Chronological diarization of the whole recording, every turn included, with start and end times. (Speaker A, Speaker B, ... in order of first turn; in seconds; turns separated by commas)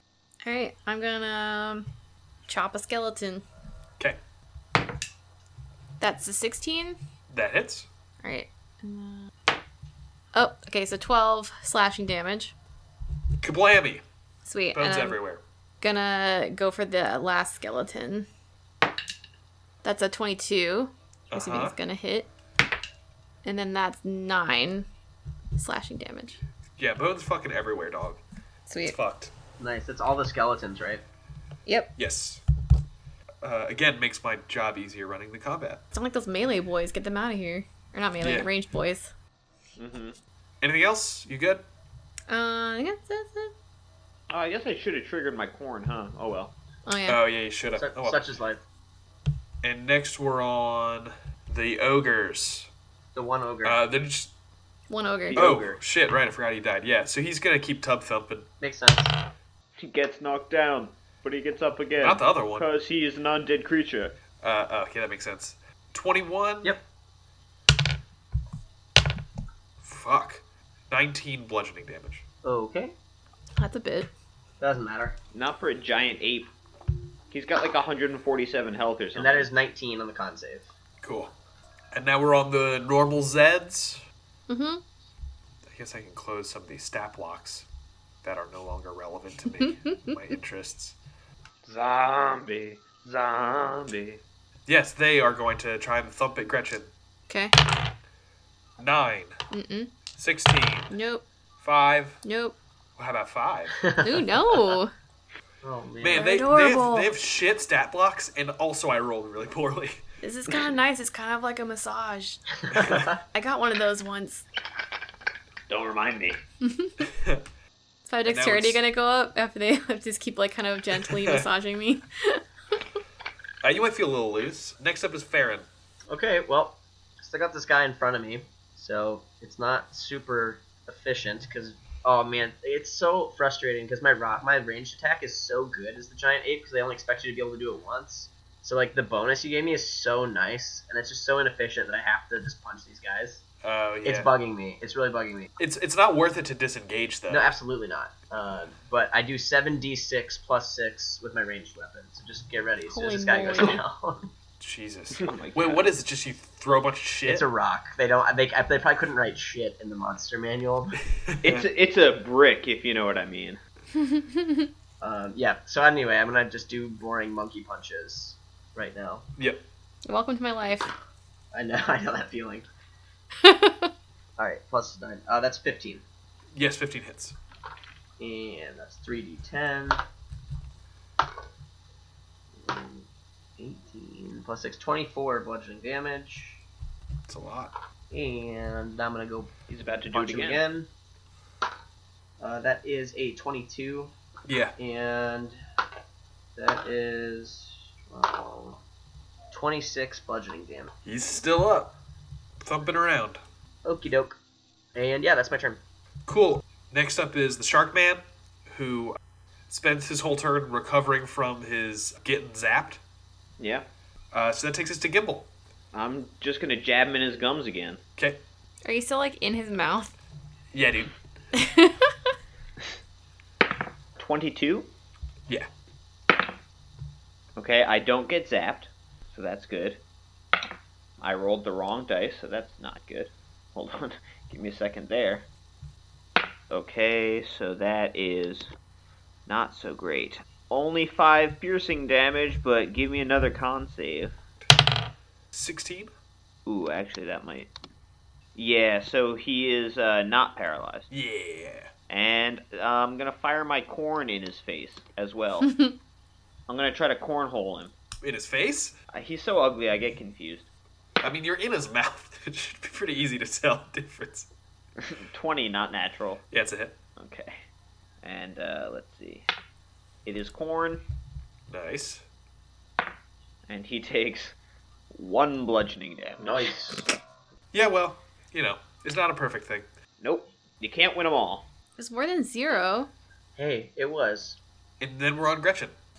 Speaker A: 0.4-1.9, Speaker A: 2.5-3.4, Speaker A: 6.0-7.0, Speaker B: 7.3-7.8, Speaker A: 8.2-9.3, Speaker A: 10.3-12.5, Speaker B: 13.4-14.0, Speaker A: 14.4-15.2, Speaker B: 14.7-15.4, Speaker A: 15.8-18.3, Speaker A: 19.8-22.3, Speaker B: 21.3-21.7, Speaker A: 23.4-24.9, Speaker A: 25.6-26.4, Speaker B: 26.8-28.2, Speaker A: 28.7-29.0, Speaker B: 28.9-29.3, Speaker C: 29.6-31.0, Speaker A: 31.6-31.9, Speaker B: 32.0-32.4, Speaker B: 33.4-35.8, Speaker A: 35.9-39.1, Speaker B: 38.2-38.5, Speaker D: 39.8-40.1, Speaker B: 40.6-41.6, Speaker A: 42.3-43.5, Speaker D: 44.3-46.5, Speaker A: 46.9-47.2, Speaker B: 47.1-48.2, Speaker C: 47.8-48.6, Speaker B: 49.6-52.7, Speaker C: 53.1-53.8, Speaker B: 53.6-54.3, Speaker A: 54.9-55.5, Speaker D: 55.3-55.8, Speaker B: 55.4-58.5, Speaker C: 58.6-59.1, Speaker D: 59.8-64.2, Speaker B: 62.0-62.6, Speaker B: 64.4-66.7, Speaker B: 69.8-72.2, Speaker C: 72.4-72.9, Speaker A: 73.6-74.1, Speaker C: 74.6-75.2, Speaker D: 75.3-76.5, Speaker D: 77.3-79.5, Speaker C: 79.1-80.7, Speaker B: 81.0-81.3, Speaker B: 81.9-84.0, Speaker A: 84.5-84.8, Speaker B: 85.7-87.7, Speaker B: 88.2-90.9, Speaker A: 89.6-90.1, Speaker D: 91.7-94.2, Speaker B: 94.7-96.9, Speaker A: 97.3-97.5, Speaker B: 98.8-99.3, Speaker A: 99.5-99.9, Speaker B: 100.2-100.9, Speaker A: 100.9-101.2, Speaker B: 101.6-102.2, Speaker A: 102.2-102.6, Speaker B: 103.0-103.8, Speaker C: 103.9-104.2, Speaker A: 104.0-104.9, Speaker C: 105.6-106.3, Speaker B: 106.0-110.0, Speaker A: 106.1-107.1, Speaker A: 110.2-112.4, Speaker C: 112.7-113.1, Speaker A: 113.3-114.4, Speaker D: 115.7-116.4, Speaker A: 116.6-117.0, Speaker A: 118.1-122.4, Speaker B: 118.3-118.8, Speaker B: 123.6-125.7, Speaker C: 126.1-143.4, Speaker B: 143.6-144.3, Speaker C: 144.0-145.5, Speaker B: 145.6-147.5, Speaker C: 147.3-154.3, Speaker A: 152.9-153.8, Speaker B: 154.6-157.4, Speaker D: 155.1-155.9, Speaker C: 157.3-161.0, Speaker D: 161.4-163.6, Speaker A: 163.9-164.7, Speaker C: 165.0-169.2, Speaker A: 170.0-170.9, Speaker C: 171.5-172.7, Speaker A: 173.4-173.9, Speaker C: 174.4-176.0, Speaker B: 176.5-177.3, Speaker C: 178.2-180.0, Speaker C: 182.6-183.1, Speaker C: 183.6-186.6, Speaker B: 187.3-187.7, Speaker C: 188.1-189.5, Speaker D: 189.7-190.6, Speaker C: 190.1-190.9, Speaker C: 192.4-194.1, Speaker B: 194.5-194.7, Speaker C: 194.8-195.6, Speaker C: 196.6-198.8, Speaker C: 199.5-200.9, Speaker B: 201.1-201.9, Speaker B: 202.6-203.4, Speaker C: 203.8-204.4, Speaker C: 204.9-205.8, Speaker B: 206.3-209.2, Speaker B: 209.7-213.0, Speaker D: 213.6-213.8, Speaker B: 214.3-215.5, Speaker D: 215.9-218.0, Speaker A: 218.8-220.1, Speaker B: 220.7-221.1, Speaker A: 221.5-222.1, Speaker D: 224.2-224.9, Speaker D: 227.6-230.0, Speaker D: 231.2-235.5, Speaker D: 236.7-238.7, Speaker D: 239.5-244.3, Speaker B: 245.5-246.1, Speaker D: 246.7-247.7, Speaker D: 248.5-251.1, Speaker B: 251.1-251.9, Speaker D: 252.1-255.8, Speaker A: 255.7-255.9, Speaker D: 256.7-257.9, Speaker B: 258.2-258.9, Speaker D: 259.1-260.7, Speaker B: 261.2-264.5, Speaker D: 265.0-266.4, Speaker B: 266.5-267.0, Speaker D: 267.1-267.6, Speaker D: 268.2-269.5, Speaker D: 270.2-271.0, Speaker B: 271.7-272.2, Speaker D: 273.7-274.6, Speaker D: 275.1-276.7, Speaker C: 276.4-277.0, Speaker B: 277.7-279.9, Speaker D: 280.2-281.7, Speaker A: 282.0-283.1, Speaker C: 283.6-284.6, Speaker B: 285.0-285.9